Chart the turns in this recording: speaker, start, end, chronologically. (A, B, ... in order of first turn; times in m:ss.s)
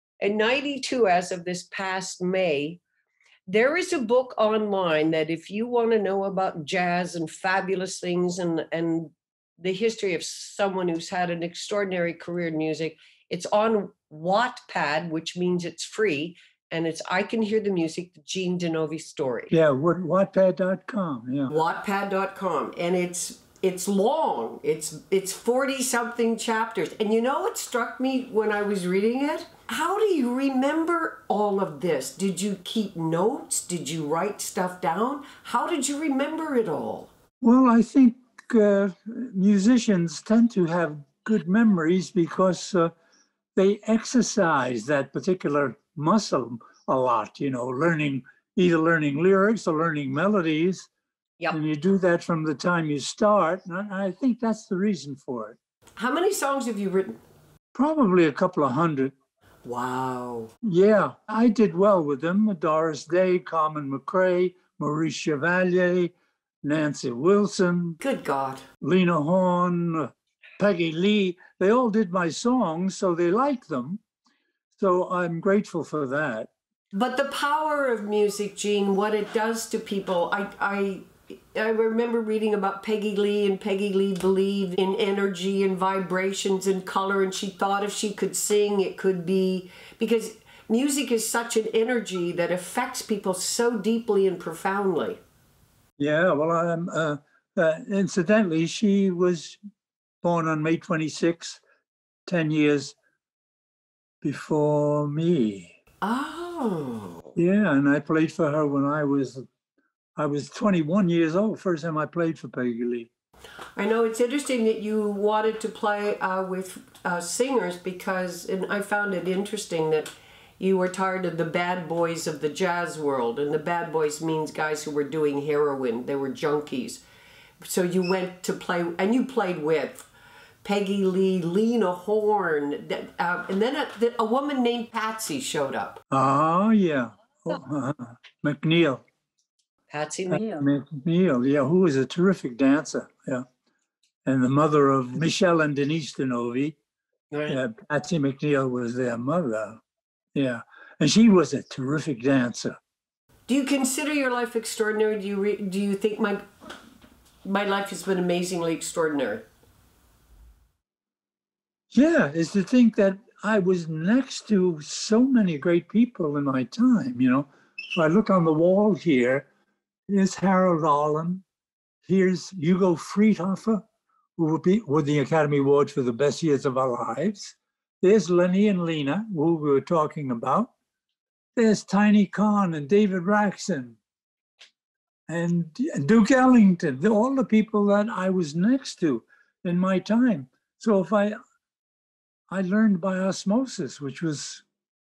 0:00.2-0:02.8 A
0:03.5-0:19.5 A
0:19.5-0:21.5 B
0:21.5-0:37.1 A
0:37.4-0:42.9 B
0:43.6-0:50.9 B
0:51.5-0:55.6 B
0:56.0-0:57.2 A
0:57.7-0:59.1 B
0:59.6-1:00.5 A
1:00.6-1:08.0 B
1:08.0-1:08.6 A
1:08.8-1:14.0 B
1:14.8-1:16.5 B
1:16.9-1:35.2 A
1:36.0-1:39.6 B
1:40.2-1:41.6 B
1:42.3-1:43.0 B
1:44.2-1:45.7 B
1:46.0-1:47.3 A
1:47.4-1:49.5 B
1:50.2-1:53.1 B
1:53.8-2:07.0 A
2:07.6-2:10.1 A
2:10.6-2:16.0 A
2:16.1-2:19.0 B
2:19.9-2:20.6 A
2:20.3-2:23.5 B
2:24.2-2:26.8 B
2:27.3-2:27.6 A
2:27.5-2:29.8 B
2:30.4-2:32.8 B
2:33.5-2:36.4 A
2:37.4-2:39.4 A
2:41.9-2:49.5 B
2:50.1-2:51.4 B
2:52.1-2:53.8 B
2:54.4-3:00.7 B
3:01.6-3:04.0 B
3:05.3-3:11.4 B
3:12.5-3:14.6 B